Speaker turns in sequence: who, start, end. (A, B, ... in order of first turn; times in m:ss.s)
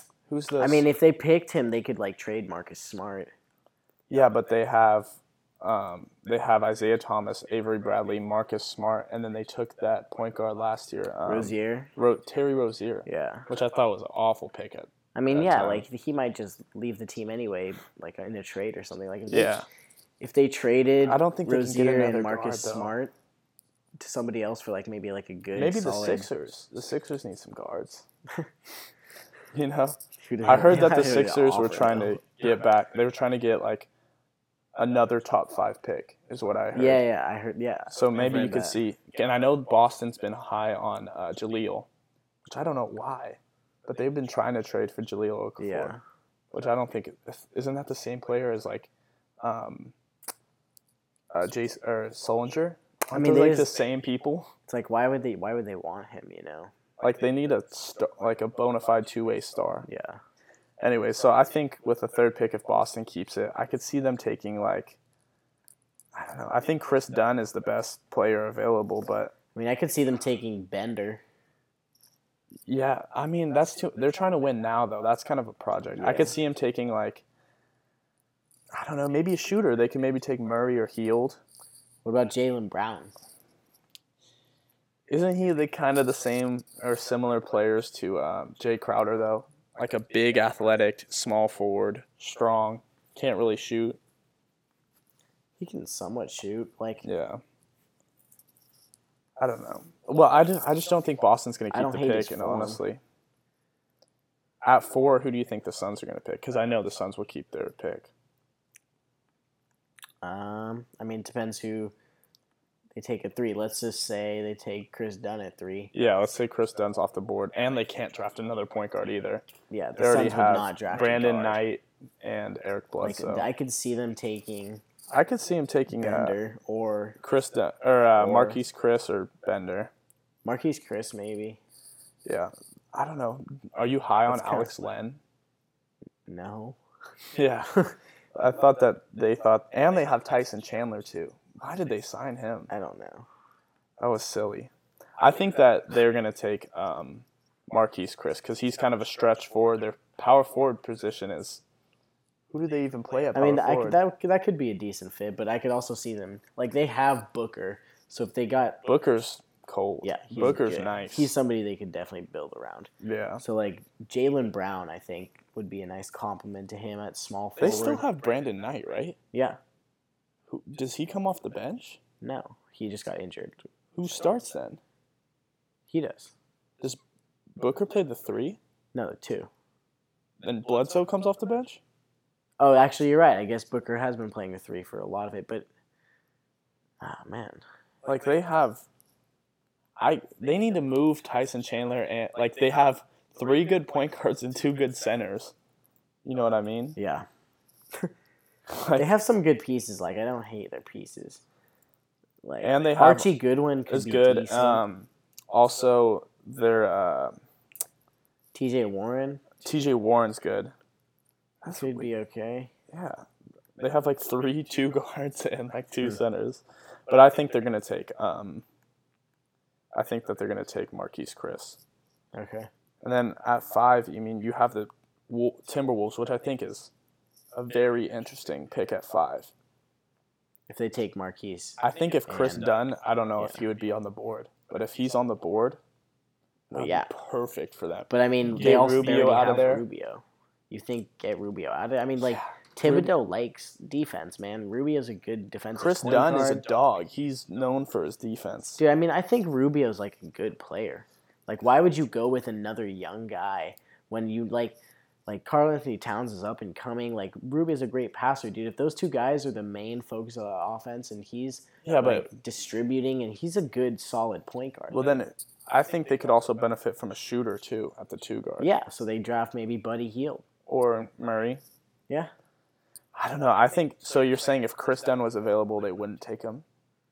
0:00.3-0:00.8 A
0:00.6-0:03.3 B
0:04.1-0:15.8 A
0:11.2-0:11.9 B
0:13.0-0:13.5 B
0:15.1-0:19.6 B
0:19.3-0:19.6 A
0:20.2-0:23.1 B
0:21.0-0:22.9 A
0:24.0-0:26.3 B
0:25.5-0:28.0 A
0:29.5-0:33.9 A
0:30.2-0:32.2 B
0:34.8-0:37.0 A
0:36.7-0:38.8 B
0:37.9-0:41.9 A
0:42.4-0:45.9 A
0:45.6-0:46.0 B
0:46.5-0:48.9 A
0:49.4-0:49.9 A
0:51.3-0:54.5 A
0:53.1-0:53.7 B
0:54.7-0:56.7 B
0:57.0-0:59.9 A
0:59.8-1:00.2 B
1:00.8-1:05.0 A
1:06.1-1:09.3 A
1:09.5-1:11.2 B
1:12.6-1:17.2 A
1:16.0-1:16.3 B
1:18.7-1:21.4 A
1:22.0-1:23.1 B
1:25.1-1:34.0 A
1:35.6-1:37.1 B
1:37.0-1:37.4 A
1:39.4-1:43.0 A
1:41.7-1:42.8 B
1:44.6-1:48.1 A
1:50.2-1:51.9 B
1:52.9-1:55.9 B
1:55.9-1:59.4 A
1:59.7-2:01.6 B
2:00.0-2:03.5 A
2:03.0-2:04.8 B
2:05.1-2:06.4 A
2:05.9-2:07.2 B
2:07.2-2:09.9 A
2:08.2-2:08.6 B
2:10.4-2:11.6 B
2:12.2-2:15.2 A
2:14.3-2:14.7 B
2:16.3-2:16.8 B
2:17.3-2:17.7 A
2:18.3-2:22.7 A
2:22.7-2:23.3 B
2:24.0-2:31.6 A
2:32.5-2:34.0 A
2:33.3-2:38.8 B
2:38.8-2:41.3 A
2:40.0-2:48.0 B
2:43.0-2:43.4 A
2:47.6-2:49.2 A
2:49.3-2:49.6 B
2:50.5-2:52.0 A
2:52.2-2:53.7 B
2:53.9-2:54.8 A
2:55.9-2:56.3 B
2:57.6-2:58.6 A
2:58.9-2:59.5 B
3:00.4-3:01.8 A
3:02.6-3:05.7 B
3:07.0-3:07.6 B
3:08.0-3:08.8 A
3:10.0-3:15.5 A
3:16.2-3:17.0 A
3:17.0-3:17.2 B
3:18.7-3:19.1 A
3:18.9-3:21.4 B
3:22.4-3:24.8 B
3:22.6-3:23.3 A
3:23.9-3:27.4 A
3:28.5-3:29.4 B
3:29.6-3:30.7 A
3:31.6-3:32.1 A
3:31.7-3:32.7 B
3:32.9-3:33.2 A
3:33.8-3:38.6 A
3:39.9-3:41.8 A
3:42.3-3:42.7 B
3:43.0-3:46.9 A
3:47.5-3:49.5 A
3:50.7-3:52.7 B
3:51.8-3:55.8 A
3:56.7-3:59.8 A
3:56.7-3:57.1 B
3:58.1-4:06.6 B
4:02.2-4:03.1 A
4:05.7-4:08.8 A
4:08.8-4:25.1 B
4:21.8-4:22.3 A
4:24.9-4:28.7 A
4:28.6-4:30.4 B
4:30.7-4:31.6 A
4:33.1-4:36.6 A